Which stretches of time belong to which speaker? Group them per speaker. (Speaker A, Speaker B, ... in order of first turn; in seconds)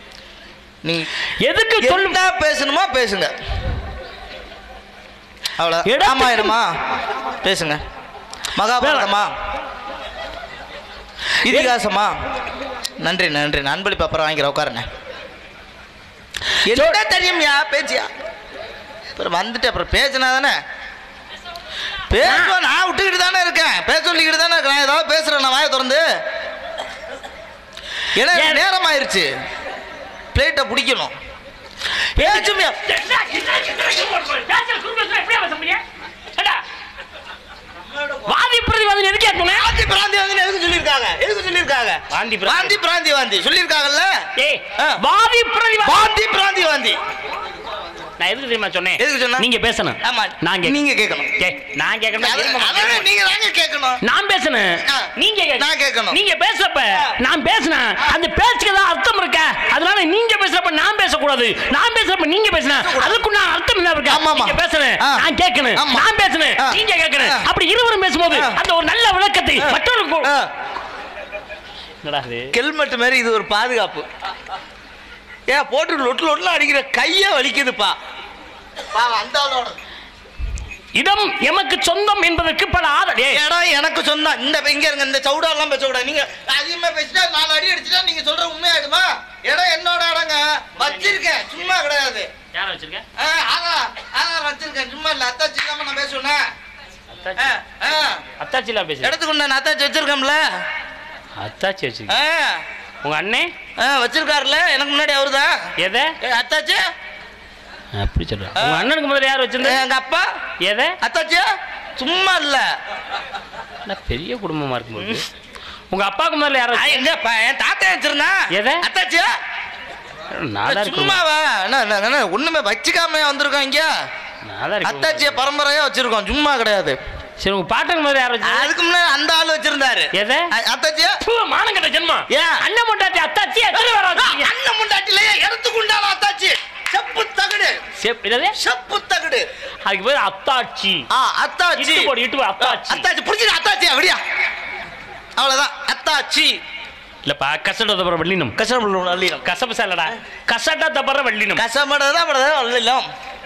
Speaker A: 0.8-1.1, 1.8-3.3, 5.6-6.8, 7.4-7.8, 8.5-9.3, 11.4-12.2, 13.0-14.9, 16.6-18.1, 19.1-20.6, 22.1-26.0, 28.1-29.3, 30.3-31.1, 32.2-32.8, 39.4-44.2, 45.8-47.0, 49.0-49.5, 50.0-51.3, 52.2-54.0, 54.8-56.2, 62.6-63.2, 64.1-66.1, 66.6-67.5, 68.3-68.6, 69.6-70.5, 72.5-74.1, 75.5-78.0, 78.9-79.8, 83.3-92.3, 93.2-96.4, 97.4-98.2, 99.0-100.4, 102.1-102.6, 103.8-105.6, 106.2-106.8, 108.6-108.9, 109.6-110.3, 111.0-112.7, 115.0-115.2, 116.7-119.3, 120.6-123.9, 124.8-127.0, 128.4-131.2, 132.3-132.6, 133.7-137.8, 138.6-139.5, 141.1-144.2, 145.3-146.6, 148.6-149.5, 151.6-153.1
Speaker B: 1.4-2.2, 5.8-6.5, 8.8-9.1, 11.4-11.7, 22.2-22.5, 28.3-28.6, 32.2-35.8, 36.3-36.6, 38.2-39.6, 42.1-42.8, 44.4-46.1, 48.2-50.8, 51.4-53.0, 54.0-70.3, 72.0-72.5, 81.0-83.4, 90.8-91.2, 92.5-93.0, 97.1-97.6, 98.4-99.1, 101.4-102.2, 103.0-103.5, 105.8-106.1, 107.9-109.8, 110.6-110.9, 113.9-115.2, 115.9-117.0, 118.5-118.8, 120.3-121.2, 124.4-125.4, 127.4-128.7, 130.1-130.5, 131.2-134.5, 138.0-138.5, 139.8-141.0, 141.8-143.1, 147.2-148.5, 149.4-151.6